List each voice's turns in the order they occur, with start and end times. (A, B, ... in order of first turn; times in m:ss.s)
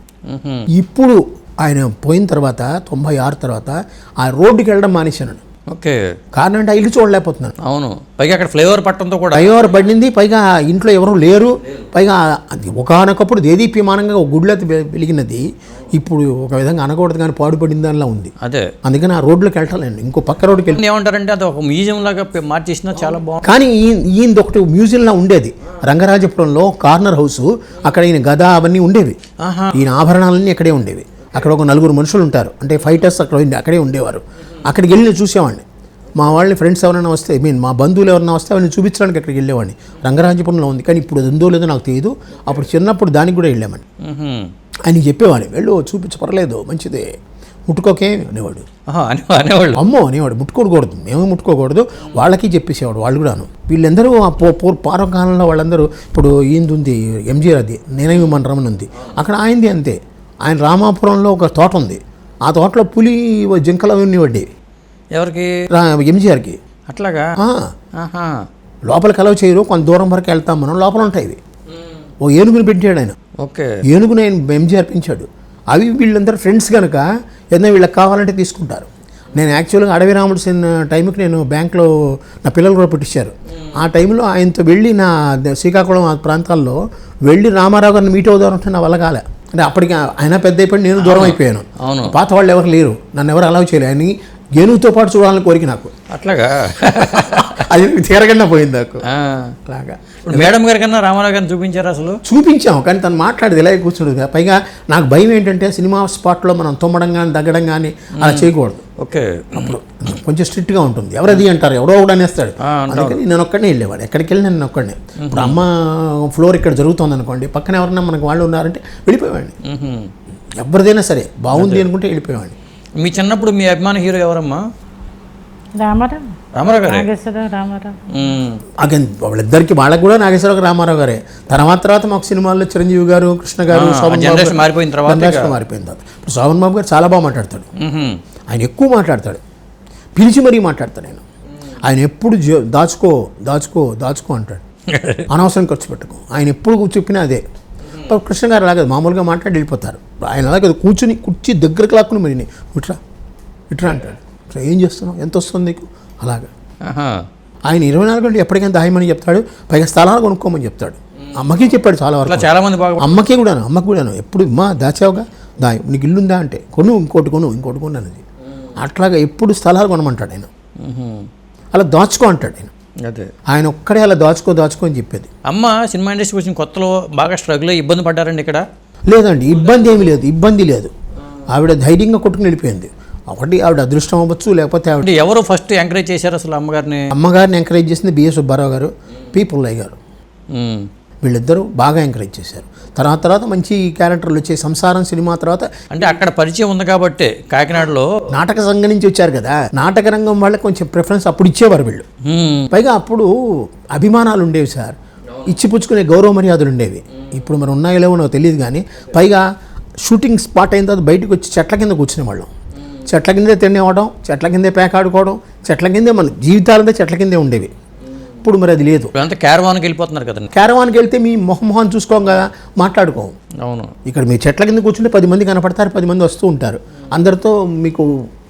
0:00.2-0:00.7 A
0:00.7-0:05.4 B
0:05.7-0:06.0 A
0:06.3-0:07.5 B
0:07.6-0:09.6 A
0:09.3-0:20.8 B
0:18.4-0:18.7 A
0:20.7-0:23.5 A
0:23.4-0:29.2 B
0:29.4-0:29.8 A
0:29.7-0:35.6 B
0:36.2-0:43.8 B
0:44.0-0:44.5 A
0:44.9-0:47.0 B
0:47.7-0:48.6 B
0:48.9-0:49.8 A
0:49.8-1:04.5 B
1:05.1-1:05.6 A
1:05.7-1:06.6 B
1:06.9-1:07.3 A
1:07.4-1:07.7 B
1:08.0-1:08.4 A
1:08.9-1:11.4 B
1:12.2-1:13.1 B
1:13.4-1:13.8 A
1:13.8-1:35.9 B
1:31.0-1:32.2 A
1:36.1-1:37.4 A
1:36.8-1:39.0 B
1:39.1-1:39.5 A
1:39.7-1:40.6 B
1:40.3-1:42.2 A
1:42.2-1:48.8 B
1:48.2-1:49.8 A
1:49.5-1:59.5 B
1:52.6-1:53.2 A
1:55.2-1:55.6 A
1:59.6-2:00.1 A
2:00.6-2:02.6 B
2:01.5-2:01.9 A
2:03.0-2:04.6 A
2:05.8-2:08.1 C
2:06.5-2:07.1 A
2:08.1-2:08.6 A
2:08.8-2:17.7 B
2:13.7-2:15.6 A
2:17.8-2:18.2 A
2:18.5-2:19.4 B
2:20.2-2:21.2 B
2:21.8-2:24.6 B
2:24.9-2:25.3 A
2:25.3-2:27.4 B
2:27.9-2:33.0 B
2:33.7-2:36.5 B
2:36.8-2:37.2 A
2:37.7-2:48.2 B
2:42.2-2:43.2 A
2:48.8-2:50.5 B
2:50.8-2:51.3 A
2:51.7-2:52.7 B
2:53.5-2:55.3 B
2:55.5-2:58.6 A
2:59.1-3:00.9 B
3:01.5-3:05.2 B
3:05.0-3:07.1 A
3:07.1-3:10.0 B
3:10.5-3:10.9 A
3:11.2-3:15.7 B
3:15.9-3:18.1 A
3:18.3-3:22.0 B
3:22.2-3:22.7 A
3:22.7-3:29.5 B
3:30.0-3:32.5 B
3:33.1-3:37.7 B
3:38.4-3:39.1 B
3:39.1-3:40.5 A
3:40.5-3:43.3 B
3:43.6-3:43.9 A
3:44.0-3:48.1 B